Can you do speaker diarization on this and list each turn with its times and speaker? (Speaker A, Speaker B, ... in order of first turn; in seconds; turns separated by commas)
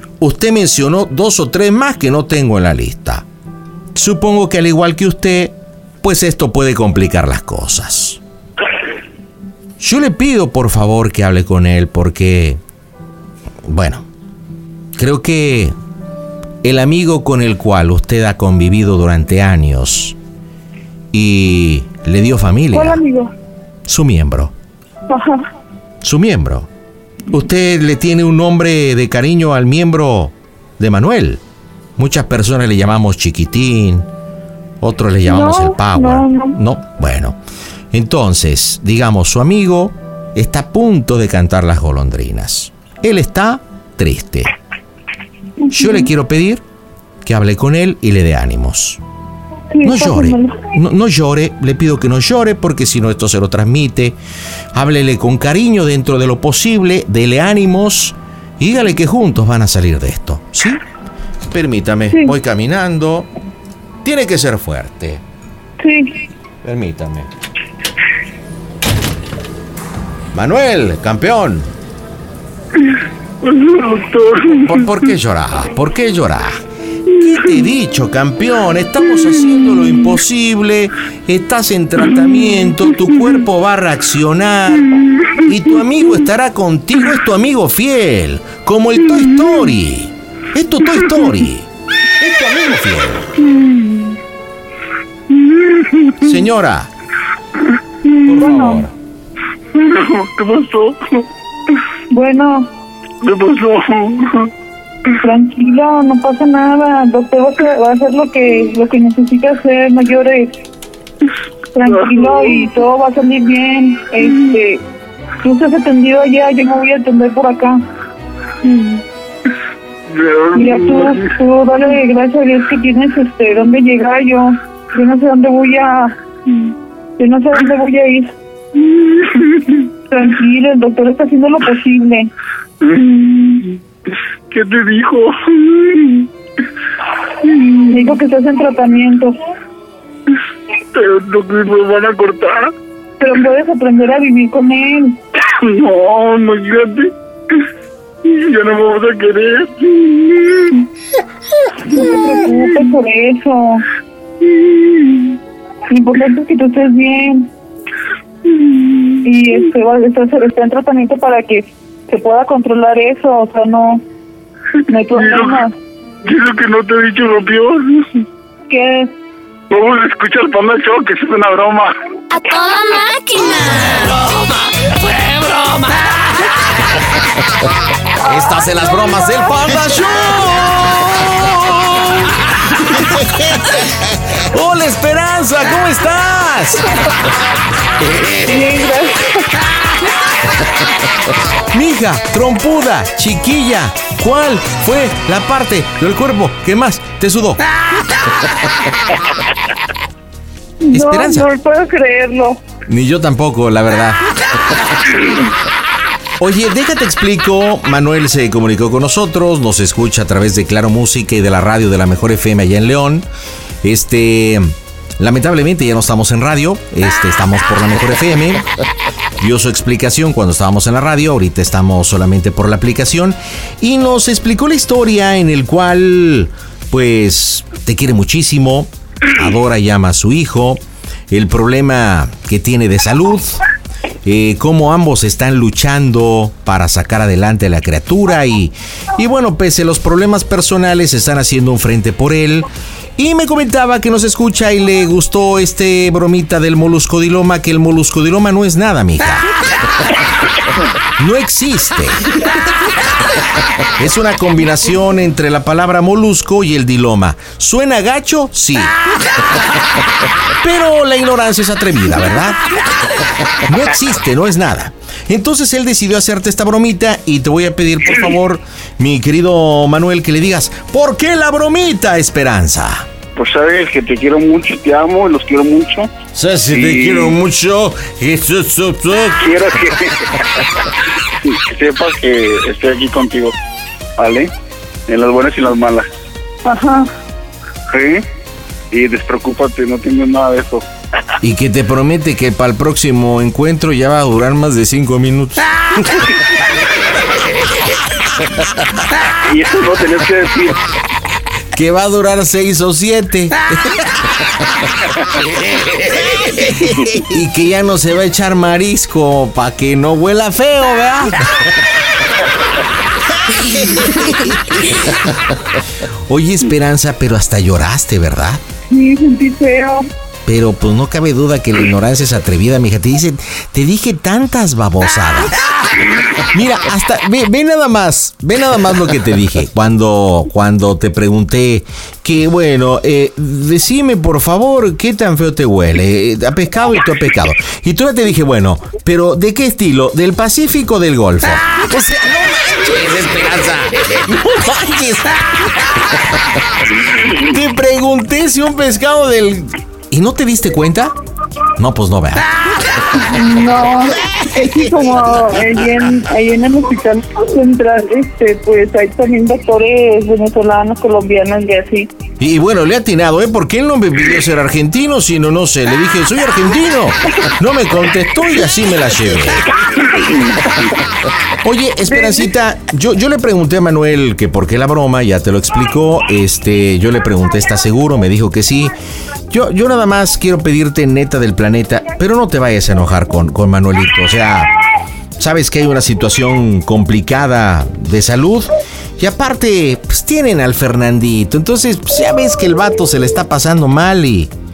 Speaker A: 0.2-3.2, Speaker A: 3.9-8.2, Speaker A: 9.8-12.6, Speaker A: 13.7-14.1, Speaker A: 14.9-15.7, Speaker A: 16.6-20.2, Speaker A: 21.1-23.0, Speaker B: 22.7-23.3, Speaker A: 23.9-24.5, Speaker B: 25.1-25.4, Speaker A: 26.0-26.7, Speaker A: 27.3-31.4, Speaker A: 32.0-34.1, Speaker A: 34.8-37.4, Speaker B: 35.2-36.6, Speaker A: 37.9-44.5, Speaker B: 45.6-46.1, Speaker A: 45.7-46.6, Speaker A: 47.2-49.0, Speaker B: 49.7-50.6, Speaker A: 49.8-54.2, Speaker A: 54.7-60.8, Speaker A: 61.5-63.3, Speaker A: 64.0-65.2, Speaker B: 65.8-66.1, Speaker A: 66.6-67.3, Speaker A: 70.3-71.7, Speaker C: 73.4-74.7, Speaker A: 74.5-93.3, Speaker C: 95.7-96.0, Speaker A: 96.2-96.9, Speaker B: 98.2-98.8, Speaker A: 98.2-98.9, Speaker C: 99.7-101.2, Speaker B: 102.1-102.7, Speaker C: 103.2-104.5, Speaker B: 105.2-110.5, Speaker B: 111.7-114.8, Speaker C: 112.0-112.6, Speaker B: 115.4-117.8, Speaker B: 118.6-119.0, Speaker C: 120.1-121.3, Speaker B: 120.5-126.1, Speaker B: 127.2-128.3, Speaker C: 128.9-129.7, Speaker B: 130.1-132.3, Speaker C: 132.8-133.7, Speaker C: 134.5-136.3, Speaker C: 137.4-137.8, Speaker B: 137.9-139.3, Speaker C: 140.9-142.7, Speaker B: 143.2-145.2, Speaker C: 145.4-147.1, Speaker C: 148.2-150.8, Speaker B: 151.8-153.8, Speaker B: 155.9-157.5, Speaker B: 159.2-164.0, Speaker B: 164.9-165.7, Speaker C: 165.1-165.6, Speaker C: 166.2-168.1, Speaker B: 168.7-169.1, Speaker C: 169.7-171.9, Speaker D: 172.3-176.5, Speaker A: 178.2-182.4, Speaker A: 182.9-187.1, Speaker B: 188.4-189.3, Speaker A: 191.7-197.6, Speaker B: 200.8-202.6, Speaker A: 200.9-201.5, Speaker A: 202.9-204.2, Speaker A: 206.4-213.3, Speaker A: 213.8-218.6, Speaker A: 219.4-233.6, Speaker A: 234.2-249.5, Speaker A: 251.2-252.2, Speaker A: 254.0-258.9, Speaker A: 260.6-262.6, Speaker A: 263.6-273.1, Speaker C: 273.4-276.1, Speaker A: 276.3-279.5, Speaker C: 276.7-277.3, Speaker C: 279.4-280.6, Speaker C: 281.4-283.5, Speaker C: 284.2-284.5, Speaker C: 285.1-286.1, Speaker B: 286.6-287.1, Speaker C: 287.9-288.2, Speaker C: 288.9-290.9, Speaker A: 291.4-296.3, Speaker C: 299.4-300.9, Speaker A: 301.7-304.0, Speaker A: 306.6-311.8, Speaker A: 313.5-314.9, Speaker A: 316.3-318.6, Speaker B: 318.9-320.0, Speaker A: 320.4-325.6, Speaker A: 326.4-346.6, Speaker A: 347.1-351.1, Speaker A: 351.8-352.5, Speaker B: 353.2-362.1, Speaker A: 362.4-369.7, Speaker A: 371.6-378.9, Speaker A: 379.5-384.7, Speaker A: 385.4-394.5